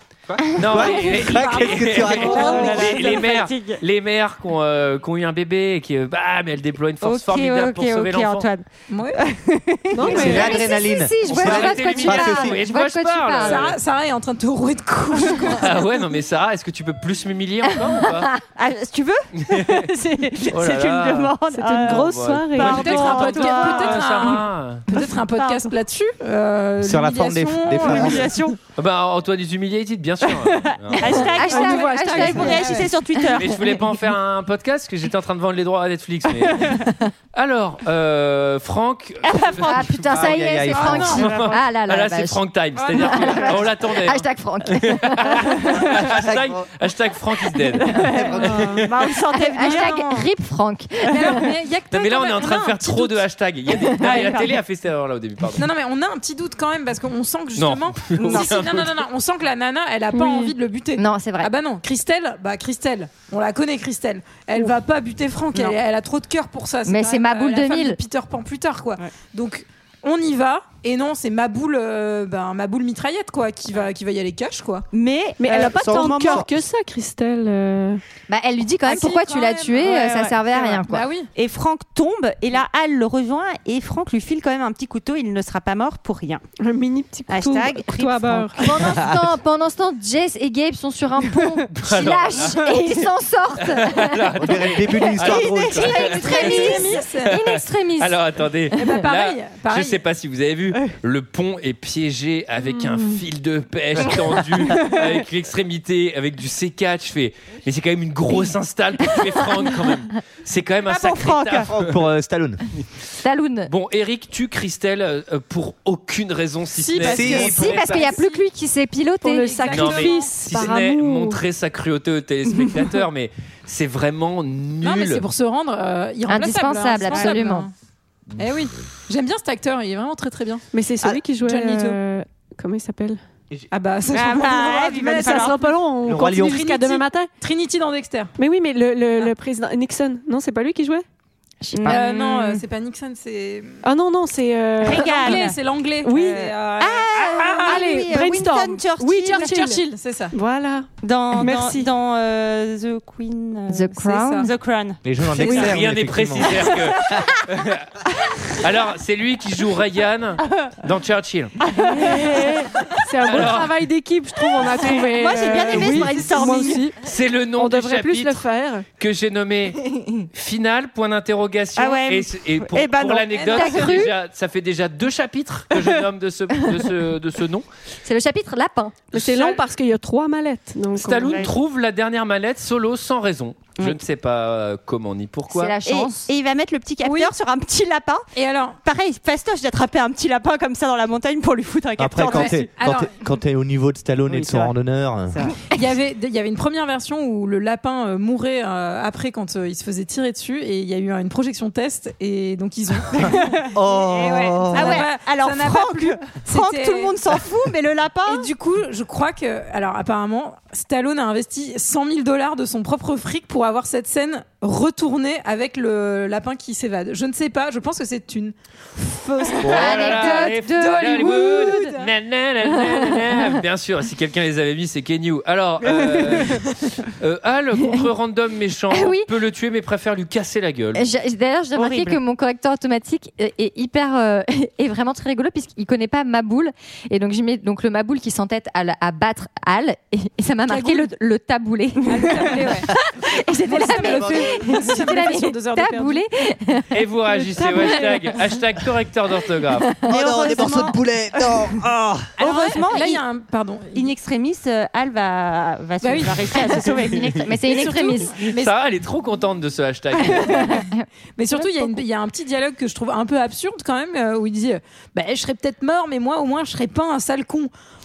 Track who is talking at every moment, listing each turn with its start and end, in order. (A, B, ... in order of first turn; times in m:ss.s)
0:00.3-0:03.0 A
0:00.5-0:08.5 B
0:00.8-0:03.2 C
0:02.3-0:03.8 D
0:07.0-0:10.6 D
0:08.9-0:09.2 C
0:09.9-0:10.6 E
0:10.0-0:12.6 A
0:10.1-0:13.7 F
0:11.3-0:13.8 B
0:13.4-0:15.8 C
0:15.6-0:18.3 B
0:18.6-0:24.4 D
0:19.5-0:19.9 B
0:20.5-0:24.8 B
0:21.5-0:23.5 E
0:22.6-0:28.3 C
0:24.9-0:25.7 D
0:26.8-0:28.4 A
0:27.8-0:28.6 D
0:28.8-0:31.3 B
0:30.9-0:33.6 D
0:31.1-0:32.9 C
0:31.3-0:33.3 F
0:33.4-0:40.3 B
0:39.2-0:40.2 D
0:39.6-0:45.5 F
0:40.1-0:41.3 A
0:40.7-0:41.3 C
0:41.0-0:48.0 B
0:41.2-0:41.6 D
0:42.8-0:43.6 C
0:46.0-0:46.7 A
0:47.9-0:48.9 A
0:48.4-0:50.2 D
0:48.4-0:48.8 E
0:49.5-0:51.5 F
0:49.6-0:50.2 C
0:51.1-0:53.3 C
0:51.9-0:55.6 B
0:53.8-0:54.6 C
0:54.0-0:54.3 F
0:55.6-1:14.9 C
0:57.6-0:59.0 B
0:58.2-0:58.5 D
1:00.1-1:01.5 F
1:06.8-1:08.0 F
1:14.9-1:16.5 D
1:15.4-1:18.0 E
1:15.5-1:16.5 A
1:18.3-1:21.1 F
1:18.8-1:20.2 C
1:19.8-1:20.8 D
1:20.7-1:21.3 C
1:21.3-1:26.4 D
1:26.6-1:28.6 E
1:27.3-1:28.5 D
1:28.6-1:34.3 F
1:28.9-1:29.2 A
1:31.7-1:32.7 B
1:33.6-1:52.0 B
1:34.4-1:36.1 A
1:35.2-1:37.4 C
1:36.0-1:38.2 F
1:38.8-1:40.0 C
1:50.9-1:51.7 D
1:51.6-1:52.6 A
1:53.2-1:53.7 F
1:53.7-1:57.5 B
1:56.8-1:58.5 C
1:57.0-1:58.0 A
1:57.3-1:59.7 F
1:59.2-2:01.4 E
1:59.4-2:00.3 C
1:59.7-2:05.2 B
2:04.8-2:07.7 C
2:06.3-2:07.7 F
2:07.1-2:07.3 D
2:08.4-2:10.6 C
2:10.7-2:13.2 E
2:11.4-2:12.0 C
2:13.7-2:18.3 C
2:14.1-2:15.6 D
2:15.2-2:17.3 E
2:16.0-2:16.6 A
2:18.4-2:21.0 E
2:21.7-2:22.6 D
2:21.8-2:23.8 C
2:23.8-2:25.4 E
2:24.8-2:25.6 D
2:24.9-2:28.1 C
2:26.0-2:26.5 E
2:26.1-2:29.7 D
2:27.4-2:29.8 E
2:29.1-2:30.4 C
2:30.3-2:31.9 E
2:31.0-2:35.7 D
2:33.7-2:34.4 F
2:34.1-2:34.5 C
2:35.0-2:37.0 A
2:35.4-2:35.7 E
2:35.5-2:37.9 B
2:38.6-2:41.6 B
2:41.6-2:42.9 D
2:42.0-2:42.4 E
2:43.0-2:47.0 E
2:43.2-2:43.7 B
2:44.5-2:46.8 D
2:47.0-2:48.4 B
2:47.6-2:48.9 E
2:49.0-2:49.8 B
2:50.3-2:57.7 B
2:51.8-2:53.8 D
2:53.3-2:53.7 C
2:53.5-2:54.1 F
2:58.0-2:59.0 F
2:59.1-3:01.5 E
2:59.1-2:59.6 B
3:01.0-3:05.8 B
3:01.2-3:01.5 D
3:05.5-3:06.3 F
3:05.8-3:08.3 D
3:07.0-3:07.3 C
3:08.4-3:08.8 C
3:08.8-3:12.7 D
3:12.0-3:15.4 A
3:12.2-3:13.2 C
3:14.3-3:14.8 D
3:15.3-3:15.6 D
3:15.7-3:27.2 C
3:23.2-3:25.0 A
3:24.7-3:28.5 D
3:28.3-3:42.1 C
3:39.6-3:51.1 B
3:39.6-3:41.7 F
3:42.8-3:43.4 F
3:48.9-3:49.3 F
3:51.0-4:07.0 F
3:51.8-3:52.2 D
4:00.7-4:01.2 C
4:02.0-4:02.9 C
4:03.6-4:06.2 C
4:04.0-4:04.5 A
4:06.9-4:10.0 B
4:07.4-4:08.3 E
4:10.0-4:12.4 A
4:10.1-4:11.0 D
4:12.4-4:13.2 D
4:12.4-4:14.1 C
4:13.9-4:17.6 D
4:16.0-4:18.7 C
4:17.2-4:18.4 F
4:18.4-4:20.7 B
4:20.2-4:27.7 C
4:20.4-4:21.9 F